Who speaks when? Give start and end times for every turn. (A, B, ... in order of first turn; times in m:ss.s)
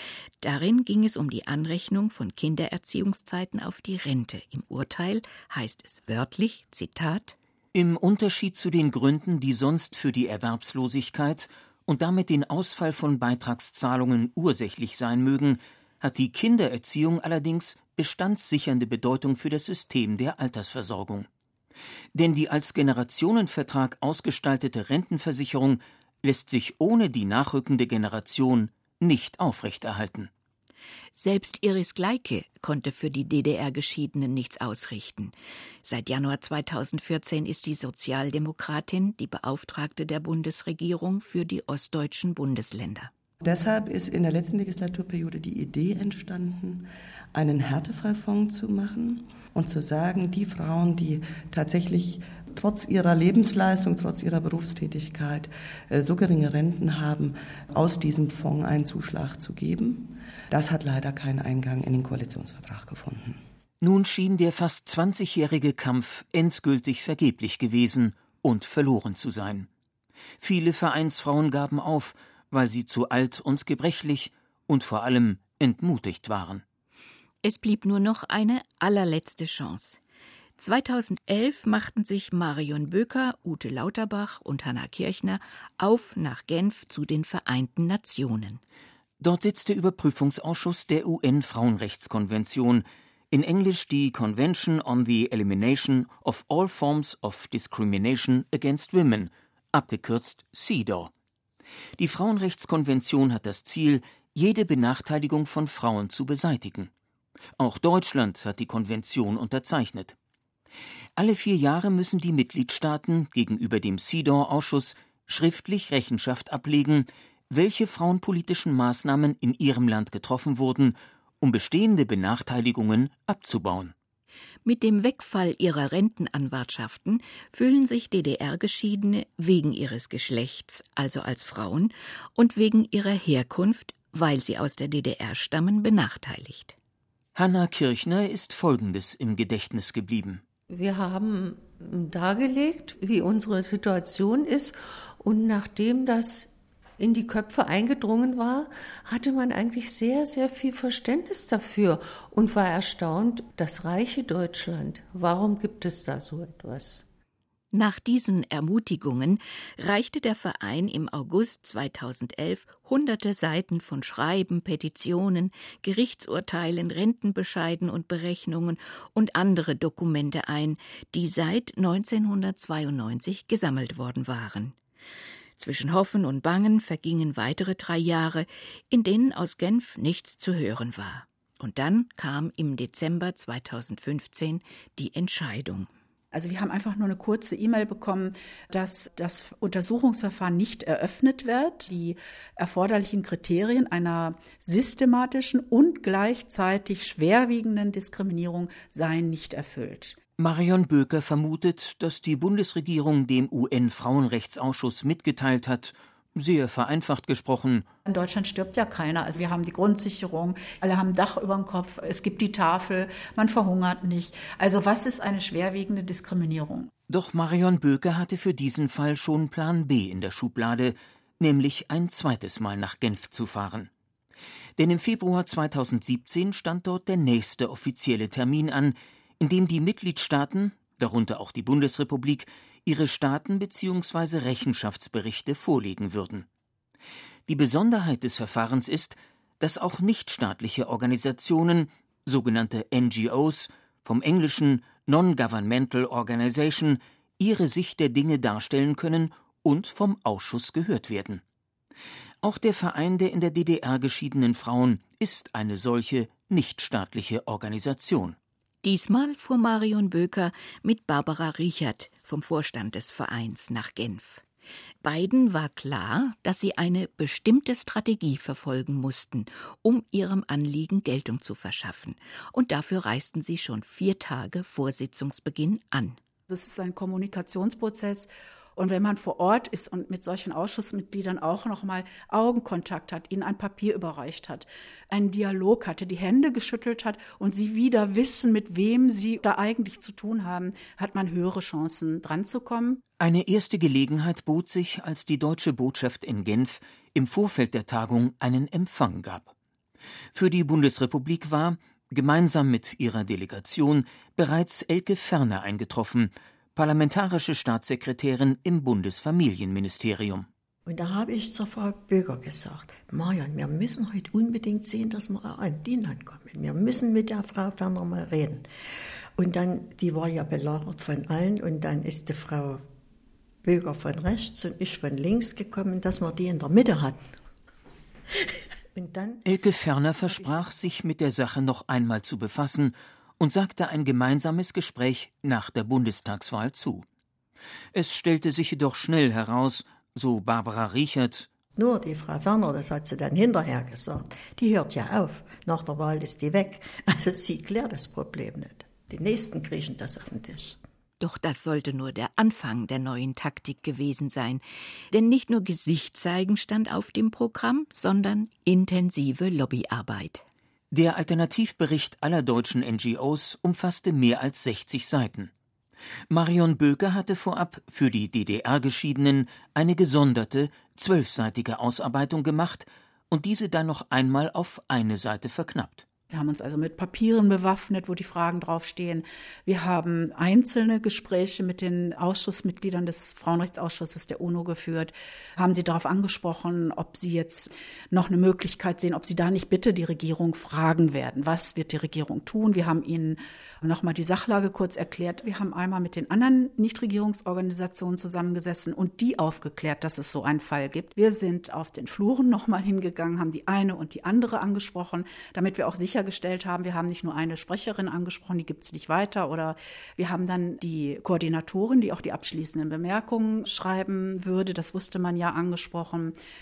0:00.4-0:07.4 A
0:07.7-0:21.3 B
0:22.1-0:30.3 B
0:31.2-0:43.1 A
0:43.4-1:03.4 C
1:03.8-1:09.7 B
1:10.4-1:16.6 B
1:17.4-1:20.0 A
1:20.6-1:28.6 A
1:29.2-1:41.1 B
1:42.0-1:46.9 B
1:47.6-1:50.2 B
1:51.2-2:03.9 B
2:04.6-2:16.8 A
2:17.3-2:20.4 B
2:20.7-2:37.1 D
2:37.7-2:54.8 A
2:55.6-3:05.9 A
3:06.3-3:20.2 E
3:20.4-3:27.8 B
3:28.0-3:36.9 E
3:37.1-3:43.9 B
3:44.8-3:56.4 B
3:57.5-4:11.4 B
4:12.4-4:18.4 B
4:18.8-4:24.4 A
4:25.0-4:36.2 A
4:36.5-4:53.0 E
4:53.2-4:59.5 B
5:00.3-5:10.5 B
5:10.8-5:18.6 F
5:19.4-5:22.8 F
5:23.6-5:27.2 F
5:28.9-5:29.4 F
5:29.4-5:37.0 B
5:30.2-5:30.6 F
5:37.9-5:41.5 B
5:41.8-5:50.8 F
5:51.2-5:54.6 A
5:55.1-6:00.4 A
6:00.9-6:05.5 B
6:06.3-6:16.0 B
6:16.3-6:56.3 E